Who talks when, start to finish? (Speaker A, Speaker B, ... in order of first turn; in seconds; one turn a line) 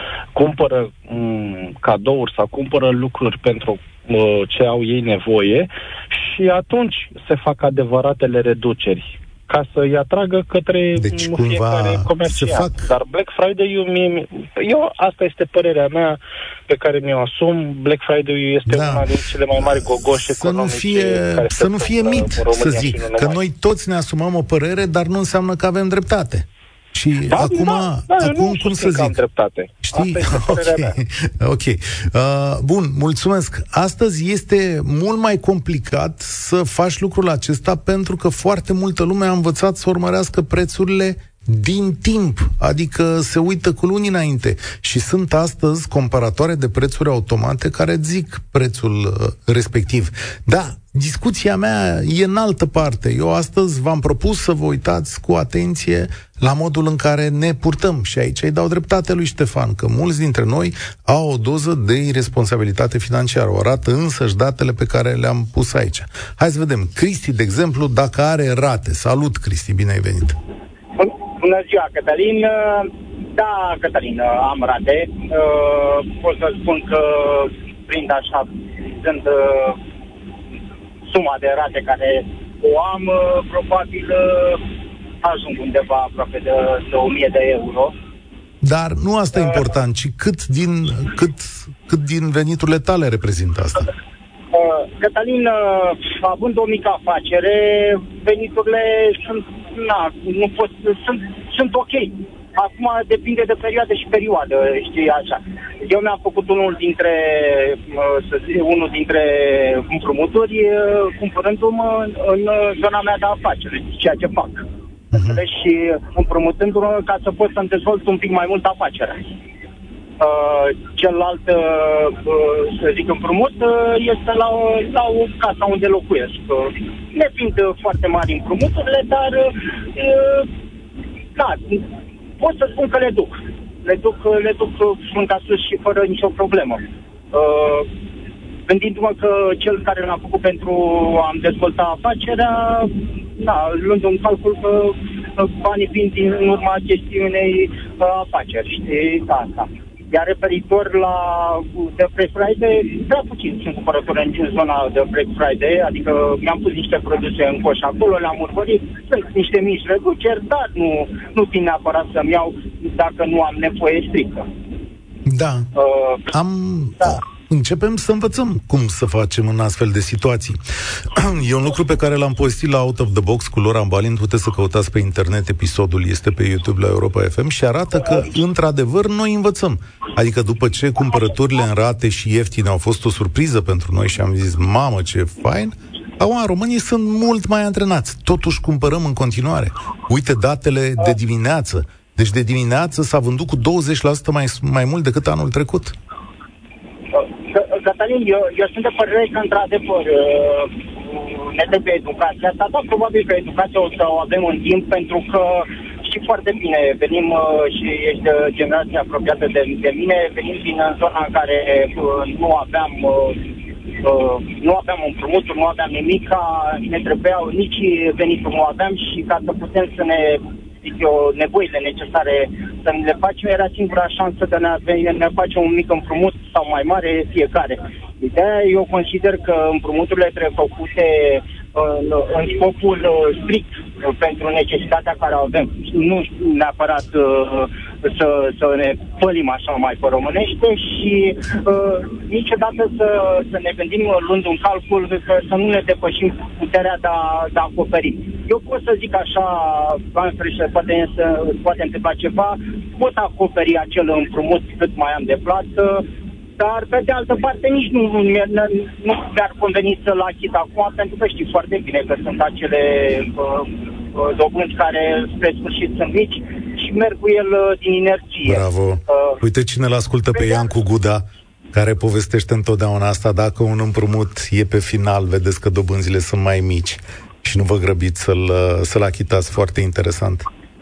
Speaker A: 0.3-23.4
Speaker B: 10.9-12.9
Speaker B: 18.7-29.1
Speaker A: 27.3-31.0
Speaker B: 29.8-70.4
Speaker C: 71.0-79.8
Speaker C: 81.1-84.7
Speaker C: 85.2-87.9
Speaker B: 88.6-93.9
Speaker C: 94.5-119.3
Speaker B: 115.1-115.4
Speaker C: 120.2-130.5
Speaker C: 131.3-131.9
Speaker C: 132.4-137.9
Speaker C: 138.7-164.5
Speaker B: 165.2-165.7
Speaker C: 165.8-166.3
Speaker B: 166.3-195.9
Speaker C: 197.1-213.5
Speaker C: 214.0-256.1
Speaker C: 256.6-269.4
Speaker B: 268.4-280.4
Speaker C: 270.3-270.6